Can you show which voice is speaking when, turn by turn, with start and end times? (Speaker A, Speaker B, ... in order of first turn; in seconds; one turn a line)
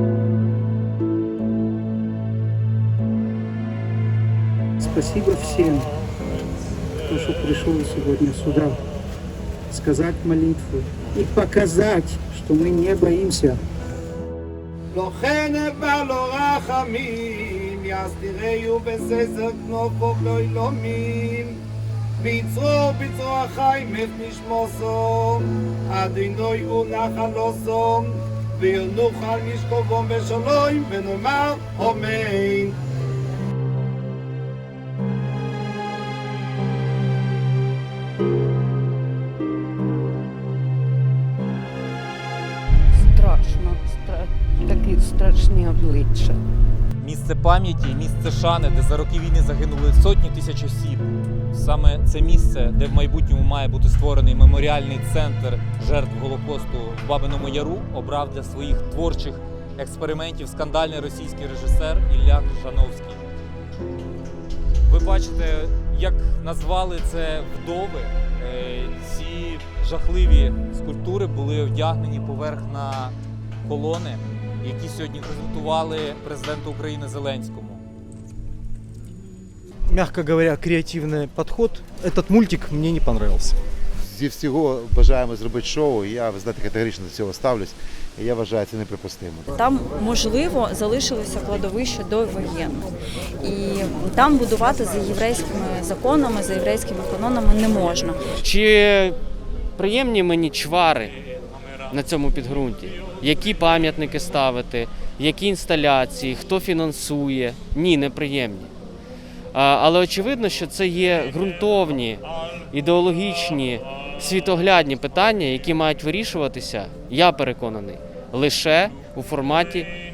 Speaker A: 4.8-5.9
Speaker A: 7.1-8.8
Speaker A: 9.7-13.6
Speaker B: 14.9-21.6
Speaker B: 22.2-32.8
Speaker C: 42.9-46.4
Speaker D: 47.0-63.2
Speaker D: 64.8-77.8
Speaker E: 79.9-83.6
Speaker F: 84.1-89.5
Speaker G: 89.5-92.9
Speaker G: 93.4-98.2
Speaker H: 98.4-99.2
Speaker H: 99.8-101.1
Speaker H: 101.9-108.7
Speaker H: 109.5-119.9